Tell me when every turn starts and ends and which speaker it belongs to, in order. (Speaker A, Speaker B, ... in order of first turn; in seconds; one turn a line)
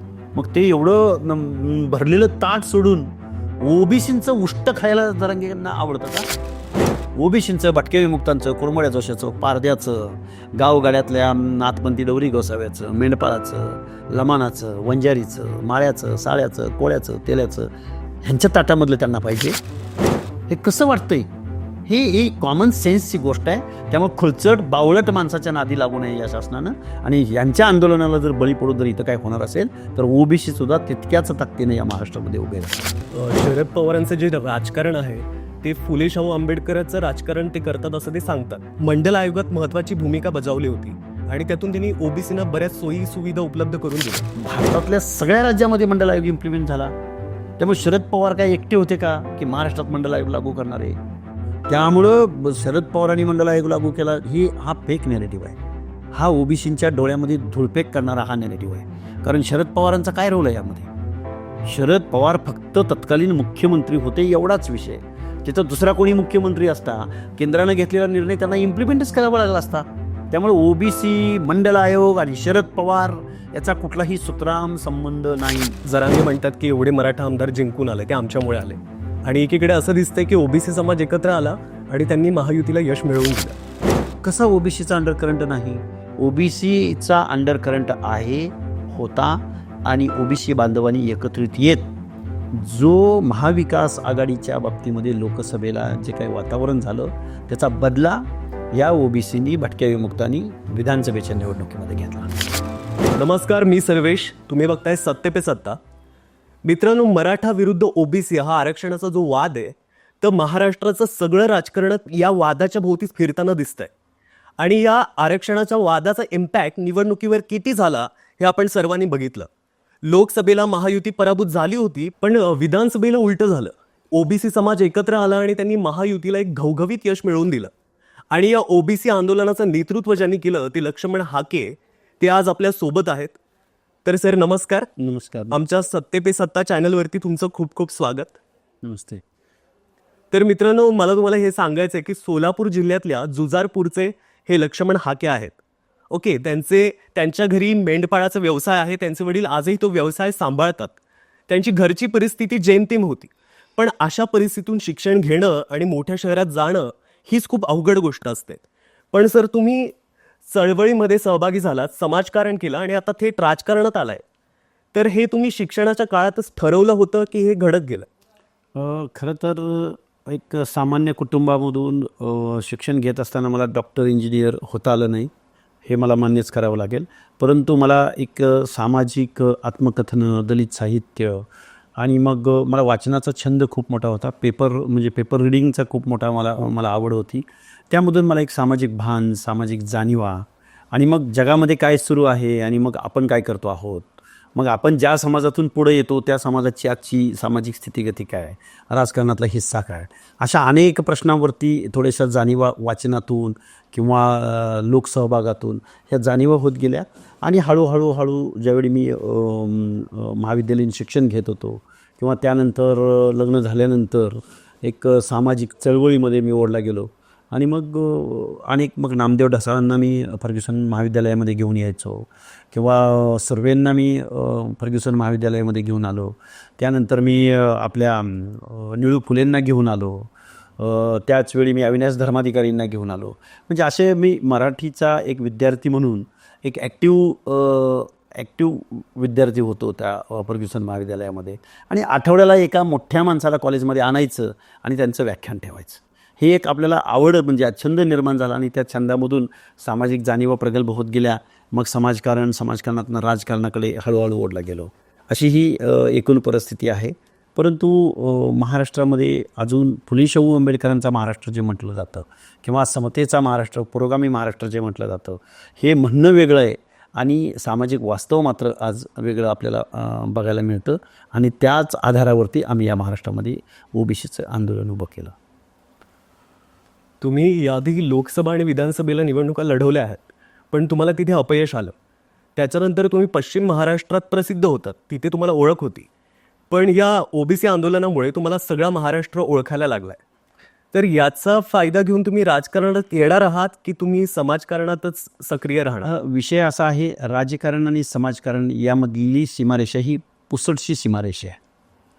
Speaker A: 0.3-3.1
Speaker A: 3.6-6.3
Speaker A: 7.2-17.7
Speaker A: 18.2-19.6
Speaker A: 20.5-21.3
Speaker A: 21.9-32.9
Speaker B: 33.1-44.3
Speaker A: 44.4-46.9
Speaker A: 47.6-51.0
Speaker A: 51.7-55.6
Speaker A: 56.1-60.9
Speaker A: 61.6-75.8
Speaker B: 75.8-83.6
Speaker A: 84.2-91.9
Speaker A: 92.5-102.3
Speaker B: 103.1-105.8
Speaker B: 106.6-113.9
Speaker B: 114.6-119.5
Speaker B: 120.0-127.7
Speaker B: 128.3-133.4
Speaker B: 134.0-134.9
Speaker A: 135.0-135.6
Speaker B: 135.5-138.4
Speaker A: 138.8-139.2
Speaker B: 140.3-145.6
Speaker B: 146.1-151.0
Speaker B: 151.5-159.9
Speaker B: 160.4-164.2
Speaker B: 164.9-168.1
Speaker A: 168.7-175.3
Speaker A: 175.8-181.5
Speaker A: 182.0-275.4
Speaker B: 277.2-281.9
Speaker B: 282.6-286.1
Speaker B: 286.7-290.2
Speaker B: 290.9-296.1
Speaker A: 296.0-301.6